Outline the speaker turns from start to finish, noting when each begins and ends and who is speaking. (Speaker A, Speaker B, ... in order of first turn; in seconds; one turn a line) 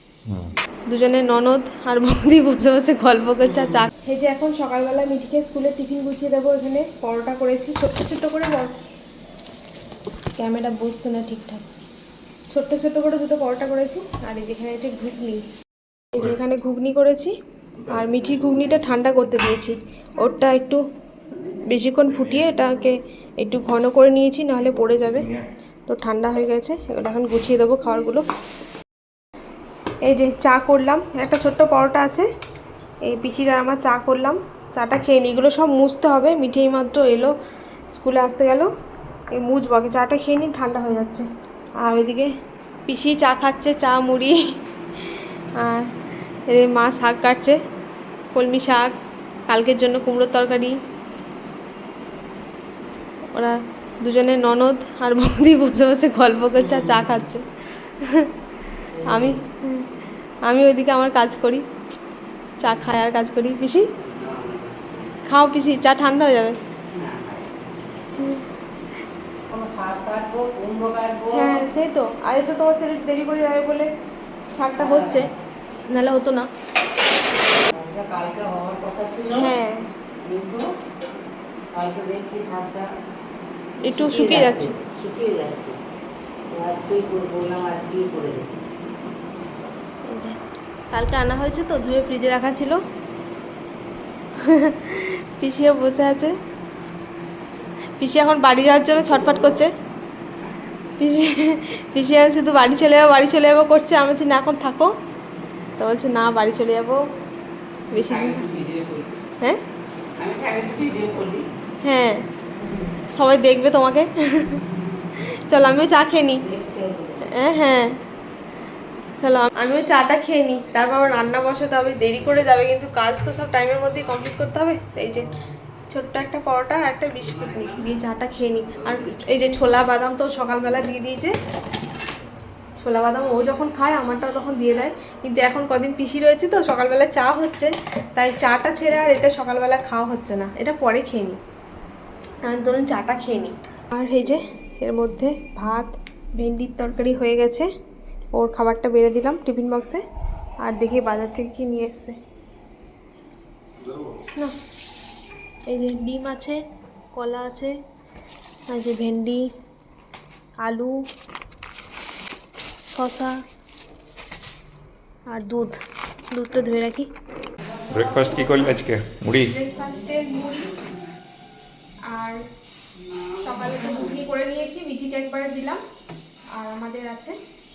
Speaker A: 0.3-0.5
Speaker B: 0.9-8.7
Speaker C: 3.4-3.8
Speaker B: 10.4-11.7
Speaker B: 12.5-15.4
Speaker B: 16.1-17.3
Speaker B: 17.9-20.8
Speaker B: 21.6-25.3
Speaker A: 25.1-25.4
Speaker B: 25.9-28.2
Speaker B: 30.1-32.2
Speaker B: 33.1-37.3
Speaker B: 37.9-38.7
Speaker B: 39.3-41.3
Speaker B: 41.8-42.3
Speaker B: 42.9-44.4
Speaker B: 45.0-45.9
Speaker B: 46.5-47.6
Speaker B: 48.3-48.9
Speaker B: 49.5-50.8
Speaker B: 53.3-57.4
Speaker C: 56.6-57.3
Speaker B: 58.0-58.3
Speaker C: 58.9-59.4
Speaker B: 59.0-59.9
Speaker B: 60.4-61.6
Speaker B: 62.6-63.8
Speaker C: 64.0-65.1
Speaker B: 65.2-66.6
Speaker C: 66.9-67.5
Speaker B: 68.2-68.4
Speaker C: 69.5-71.6
Speaker B: 71.3-73.9
Speaker B: 74.5-75.3
Speaker C: 74.7-75.2
Speaker B: 75.8-76.5
Speaker C: 77.7-79.5
Speaker B: 79.3-79.9
Speaker C: 80.2-80.7
Speaker C: 81.7-82.9
Speaker B: 83.8-84.7
Speaker C: 83.9-85.8
Speaker C: 86.5-88.5
Speaker B: 90.0-90.4
Speaker B: 90.9-92.8
Speaker B: 94.4-96.3
Speaker B: 98.0-99.7
Speaker C: 99.1-99.4
Speaker B: 101.0-104.9
Speaker B: 105.8-107.0
Speaker B: 107.9-108.5
Speaker C: 108.0-109.1
Speaker C: 110.2-111.4
Speaker B: 111.8-112.2
Speaker C: 112.6-112.9
Speaker B: 113.1-114.6
Speaker B: 115.2-116.4
Speaker C: 116.4-117.3
Speaker B: 117.2-118.0
Speaker B: 119.2-125.3
Speaker B: 125.9-131.3
Speaker B: 132.8-141.4
Speaker B: 142.4-147.7
Speaker B: 148.3-150.0
Speaker B: 150.6-152.1
Speaker B: 155.7-156.6
Speaker B: 157.1-157.7
Speaker B: 158.7-159.4
Speaker B: 160.6-160.9
Speaker B: 162.9-163.4
Speaker B: 165.3-165.8
Speaker B: 166.3-167.1
Speaker C: 167.8-168.7
Speaker A: 167.9-169.5
Speaker B: 169.4-170.8
Speaker B: 172.1-172.4
Speaker B: 173.4-175.8
Speaker B: 176.5-177.3